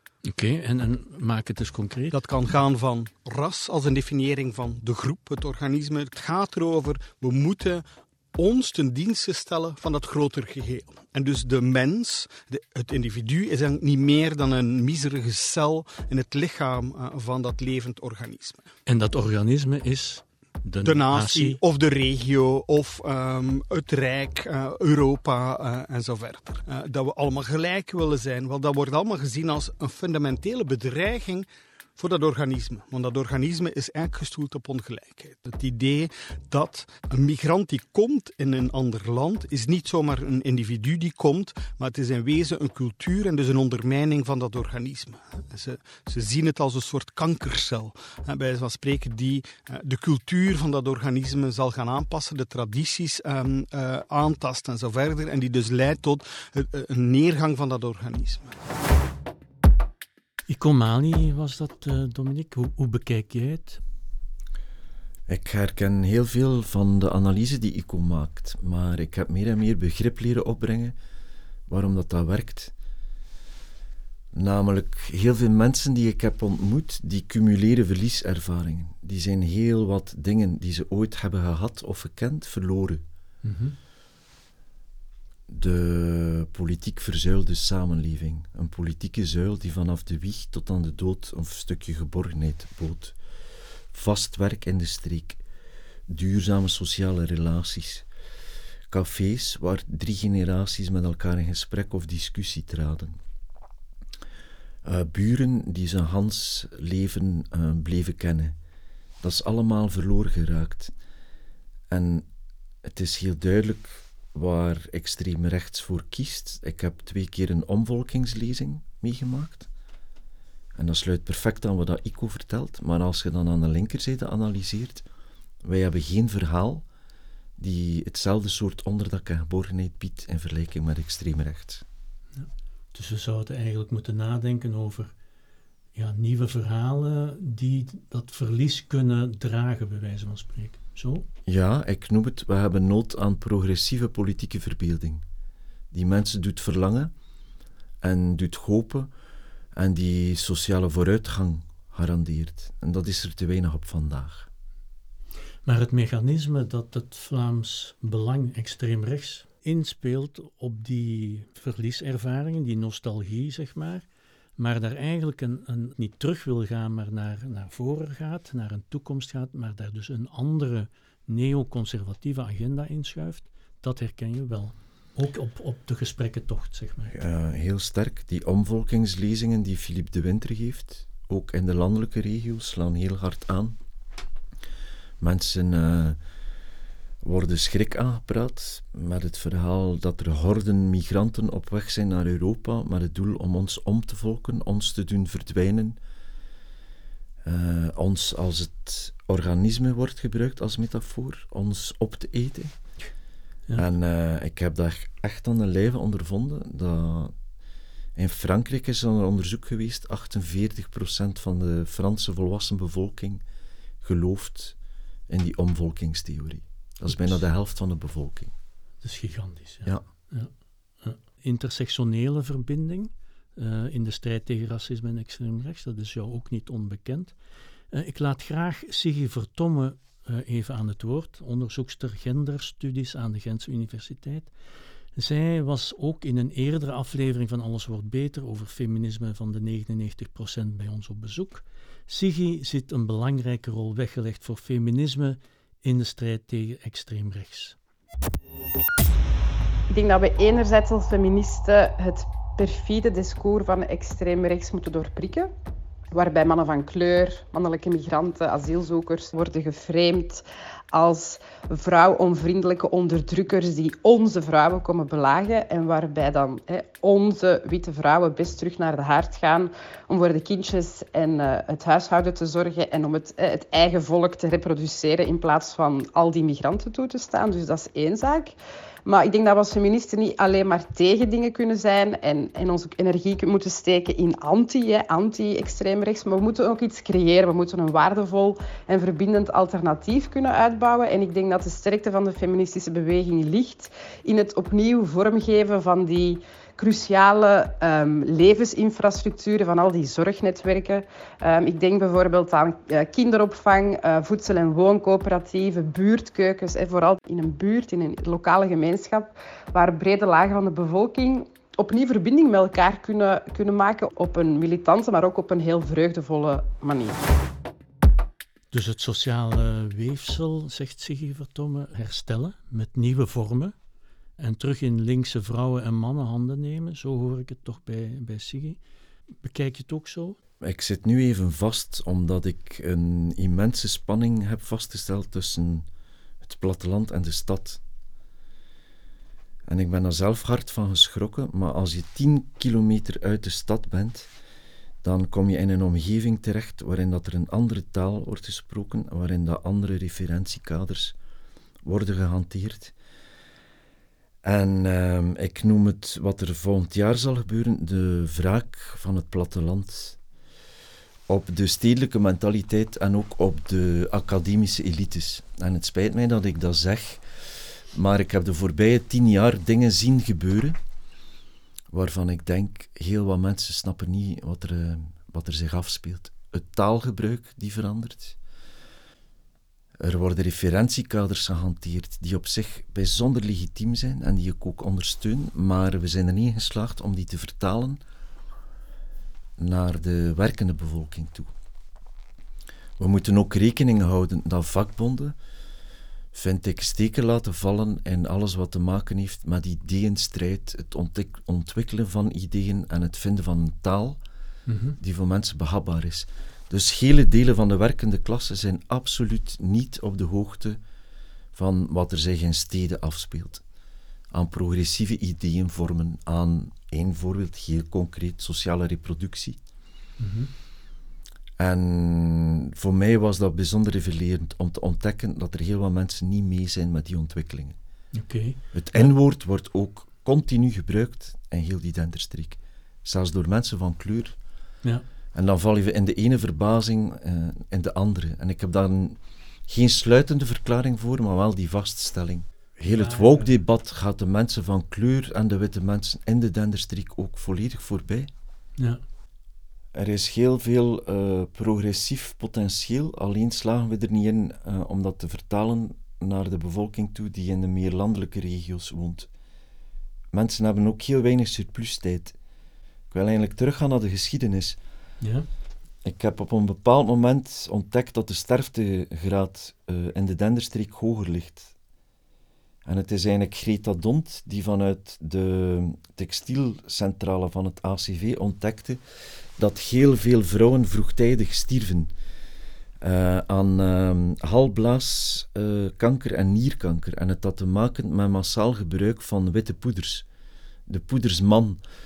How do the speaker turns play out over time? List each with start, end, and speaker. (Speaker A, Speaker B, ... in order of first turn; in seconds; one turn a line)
Speaker A: 0.2-2.2
Speaker B: 2.1-7.8
Speaker B: 8.4-18.7
Speaker A: 18.9-21.6
Speaker B: 20.8-58.6
Speaker A: 60.5-63.8
Speaker C: 65.3-71.0
Speaker C: 71.7-72.7
Speaker C: 74.3-83.0
Speaker A: 83.4-83.8
Speaker C: 85.5-93.2
Speaker C: 93.9-95.4
Speaker C: 96.1-98.1
Speaker C: 98.9-103.2
Speaker C: 104.8-108.6
Speaker C: 109.2-110.9
Speaker C: 111.9-112.3
Speaker C: 112.8-119.7
Speaker C: 120.8-125.1
Speaker C: 125.6-126.8
Speaker C: 127.6-131.8
Speaker A: 132.4-135.1
Speaker A: 135.9-141.3
Speaker C: 141.5-145.2
Speaker C: 145.9-147.1
Speaker C: 148.0-149.1
Speaker C: 149.8-154.5
Speaker A: 155.7-164.1
Speaker A: 164.6-177.2
Speaker C: 177.1-183.8
Speaker C: 185.2-186.2
Speaker C: 187.2-196.0
Speaker C: 197.4-202.7
Speaker C: 203.8-207.3
Speaker C: 208.2-213.4
Speaker C: 214.0-214.8
Speaker C: 215.3-218.5
Speaker A: 217.1-217.4
Speaker A: 219.0-220.5
Speaker A: 221.0-227.3
Speaker A: 227.9-234.5
Speaker A: 235.2-247.8
Speaker D: 249.9-255.5
Speaker D: 256.1-317.2
Speaker A: 318.7-323.8
Speaker A: 324.4-328.8
Speaker A: 329.4-330.4
Speaker C: 330.6-335.9
Speaker C: 336.4-337.8
Speaker C: 339.7-344.3
Speaker C: 345.0-351.1
Speaker C: 351.8-352.9
Speaker C: 354.4-360.2
Speaker C: 361.3-370.8
Speaker C: 371.9-378.4
Speaker C: 380.0-388.0
Speaker C: 389.6-391.5
Speaker C: 393.0-395.4
Speaker C: 396.3-404.2
Speaker A: 404.7-405.0
Speaker C: 405.0-410.8
Speaker C: 411.5-413.6
Speaker C: 414.3-419.6
Speaker A: 420.2-420.5
Speaker C: 421.6-427.8
Speaker A: 428.1-429.1
Speaker C: 428.7-434.4
Speaker C: 435.3-448.3
Speaker A: 442.8-443.5
Speaker C: 449.9-459.3
Speaker C: 460.3-462.4
Speaker C: 463.1-464.8
Speaker A: 465.2-465.5
Speaker C: 466.0-471.7
Speaker C: 472.9-479.0
Speaker C: 479.6-482.1
Speaker C: 483.0-490.3
Speaker C: 490.9-491.8